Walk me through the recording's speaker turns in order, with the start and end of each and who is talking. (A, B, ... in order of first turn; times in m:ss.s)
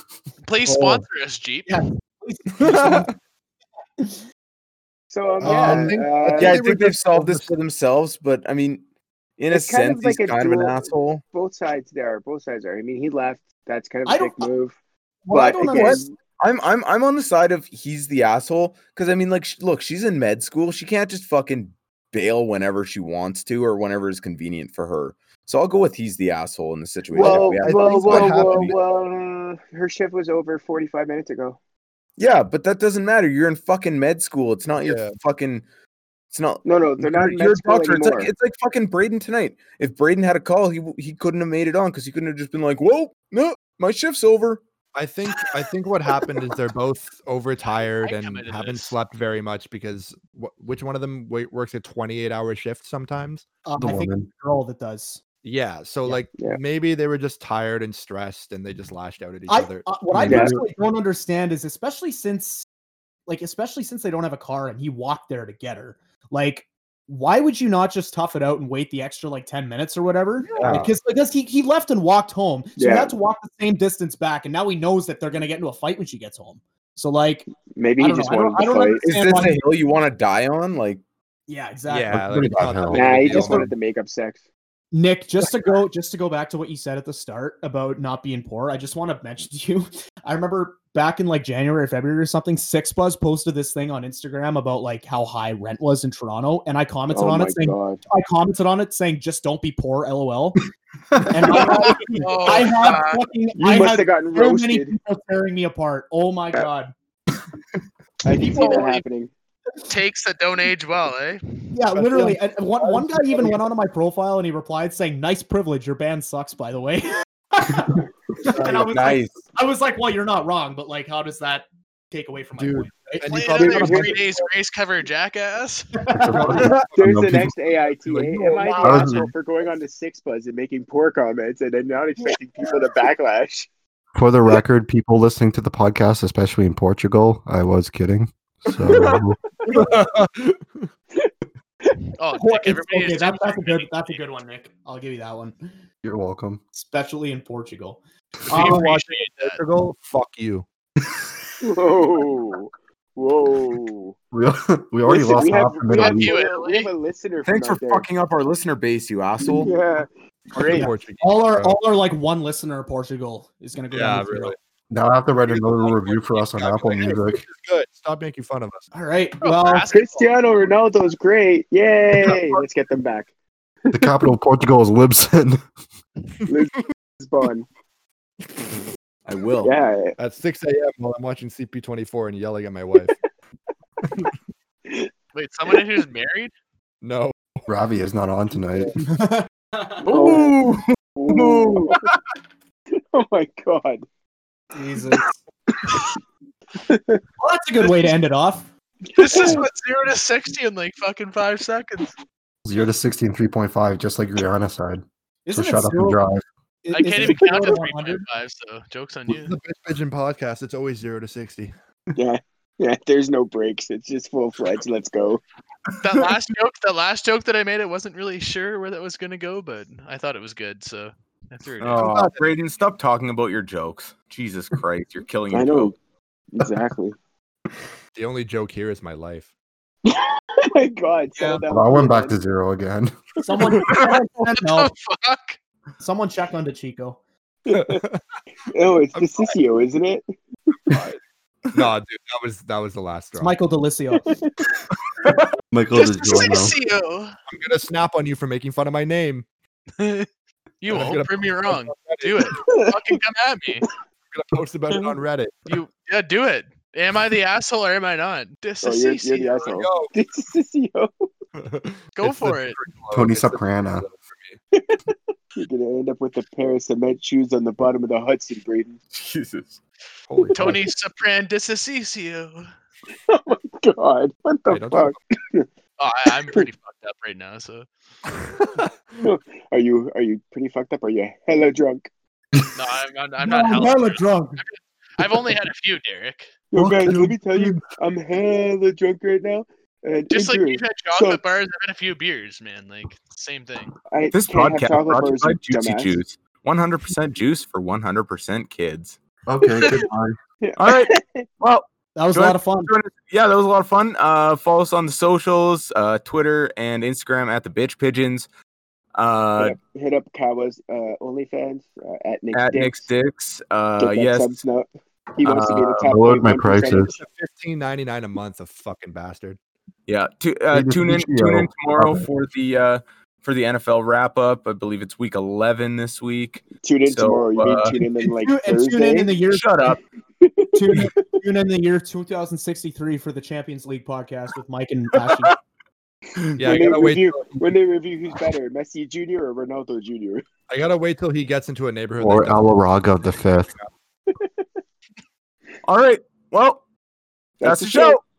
0:00.4-0:01.8 A
0:00.7-0:01.0 B
0:01.7-0:03.1 C
0:02.6-0:03.1 B
0:05.1-0:06.6 D
0:05.4-0:06.0 C
0:05.4-0:07.5 E
0:06.4-0:08.8 B
0:09.4-0:11.2 B
0:09.5-0:14.8 D
0:14.1-0:14.5 C
0:15.3-0:16.1 C
0:15.3-0:16.1 D
0:15.7-0:28.8 B
0:27.1-0:31.6 D
0:27.2-0:28.7 E
0:32.2-0:35.6 B
0:34.8-0:35.2 E
0:36.3-0:44.6 B
0:36.6-0:38.3 D
0:44.9-0:53.4 E
0:47.6-0:49.0 A
0:53.7-0:55.2 C
0:53.8-0:54.3 F
0:55.4-1:00.3 E
0:59.5-1:02.6 C
1:00.1-1:00.6 F
1:00.3-1:00.6 D
1:03.3-1:19.6 C
1:10.6-1:10.9 B
1:12.8-1:13.1 D
1:17.7-1:19.0 D
1:19.0-1:21.0 B
1:21.5-1:23.7 C
1:21.9-1:23.7 E
1:22.4-1:23.1 F
1:22.9-1:24.4 D
1:24.9-1:40.6 C
1:37.1-1:38.0 D
1:41.2-1:46.9 C
1:41.5-1:43.2 A
1:42.5-1:42.7 D
1:43.6-1:44.9 D
1:48.2-1:49.3 D
1:48.3-1:49.0 C
1:48.6-1:49.0 A
1:49.9-1:51.7 A
1:51.7-2:04.2 C
1:51.9-1:53.6 E
1:58.5-1:58.8 E
1:58.6-1:59.4 B
2:02.6-2:04.3 E
2:03.2-2:05.9 A
2:03.6-2:04.1 D
2:06.0-2:06.7 C
2:06.1-2:07.5 F
2:06.3-2:07.2 E
2:07.0-2:13.7 D
2:08.0-2:08.6 E
2:08.4-2:09.3 C
2:08.8-2:09.3 F
2:14.1-2:19.4 F
2:19.8-2:20.9 E
2:22.2-2:24.2 A
2:22.3-2:25.6 C
2:26.0-2:26.6 F
2:26.7-2:29.1 C
2:28.5-2:29.6 A
2:28.5-2:30.7 E
2:31.6-2:34.2 D
2:34.3-2:36.4 F
2:35.1-2:38.1 D
2:35.8-2:36.9 A
2:37.5-2:39.7 B
2:39.6-2:40.9 D
2:40.6-2:41.8 E
2:40.7-2:44.6 C
2:43.9-2:44.6 E
2:44.9-2:47.4 F
2:45.5-2:48.8 E
2:48.9-2:49.9 C
2:49.4-2:50.4 A
2:49.9-2:53.3 D
2:53.8-2:54.1 D
2:53.9-2:55.6 F
2:56.5-2:57.7 D
2:59.3-2:59.8 B
2:59.6-3:00.2 D
3:00.2-3:03.2 E
3:05.3-3:06.5 A
3:07.0-3:07.6 E
3:07.7-3:09.0 F
3:09.0-3:10.0 C
3:10.0-3:12.2 B
3:10.1-3:10.6 D
3:11.2-3:12.0 D
3:13.0-3:14.0 D
3:14.7-3:15.3 C
3:16.8-3:17.2 D
3:17.4-3:18.7 C
3:19.1-3:22.1 A
3:19.2-3:19.7 D
3:22.6-3:26.4 F
3:25.5-3:26.2 C
3:26.8-3:28.2 C
3:27.0-3:29.6 A
3:29.3-3:31.7 E
3:32.2-3:35.4 D
3:36.0-3:42.0 A
3:41.8-3:46.0 B
3:42.0-3:42.5 E
3:45.5-3:46.0 D
3:46.5-3:47.2 D
3:48.1-3:49.5 E
3:50.0-3:52.4 D
3:51.4-3:51.6 C
3:51.7-3:53.8 F
3:53.4-3:54.9 C
3:54.6-3:55.6 A
3:56.0-3:57.2 C
3:57.6-3:58.0 D
3:57.7-3:58.2 E
3:58.7-4:00.2 D
3:59.2-3:59.5 E
4:00.9-4:01.2 E
4:01.7-4:03.6 E
4:03.4-4:04.3 C
4:04.2-4:04.5 D
4:05.7-4:06.8 F
4:05.9-4:07.4 A
4:07.5-4:09.5 E
4:10.0-4:10.3 A
4:10.8-4:13.9 A
4:10.9-4:12.5 E
4:12.5-4:13.0 D
4:14.3-4:15.8 E
4:15.7-4:19.8 A
4:18.8-4:21.3 D
4:19.7-4:20.1 E
4:21.6-4:24.6 E
4:22.2-4:22.8 A
4:23.1-4:24.1 F
4:24.7-4:29.0 D
4:29.1-4:29.8 B
4:30.3-4:30.9 E
4:30.4-4:30.8 D
4:30.6-4:32.7 A
4:33.3-4:35.7 D
4:34.7-4:35.2 E
4:36.0-4:37.9 A
4:39.2-4:42.1 D
4:42.7-4:46.5 A
4:43.4-4:44.6 C
4:46.7-4:51.4 D
4:46.8-4:47.7 C
4:50.3-4:54.0 A
4:54.1-4:56.2 D
4:54.3-4:59.2 B
4:59.5-5:00.4 F
5:00.6-5:01.5 D
5:00.8-5:08.5 B
5:02.2-5:02.9 C
5:09.2-5:09.8 B
5:09.6-5:13.1 D
5:12.5-5:14.6 B
5:14.0-5:17.2 D
5:15.4-5:16.1 B
5:16.1-5:17.1 F
5:17.1-5:19.6 E
5:20.1-5:28.0 B
5:20.7-5:22.2 F
5:26.8-5:29.4 D
5:28.2-5:30.0 C
5:29.5-5:30.0 B
5:30.4-5:31.2 D
5:30.7-5:35.6 C
5:36.6-5:37.6 E
5:36.6-5:40.5 D
5:40.7-5:42.7 E
5:42.2-5:43.7 F
5:44.3-5:44.6 D
5:45.8-5:46.8 B
5:47.6-5:48.2 D
5:47.6-5:48.2 B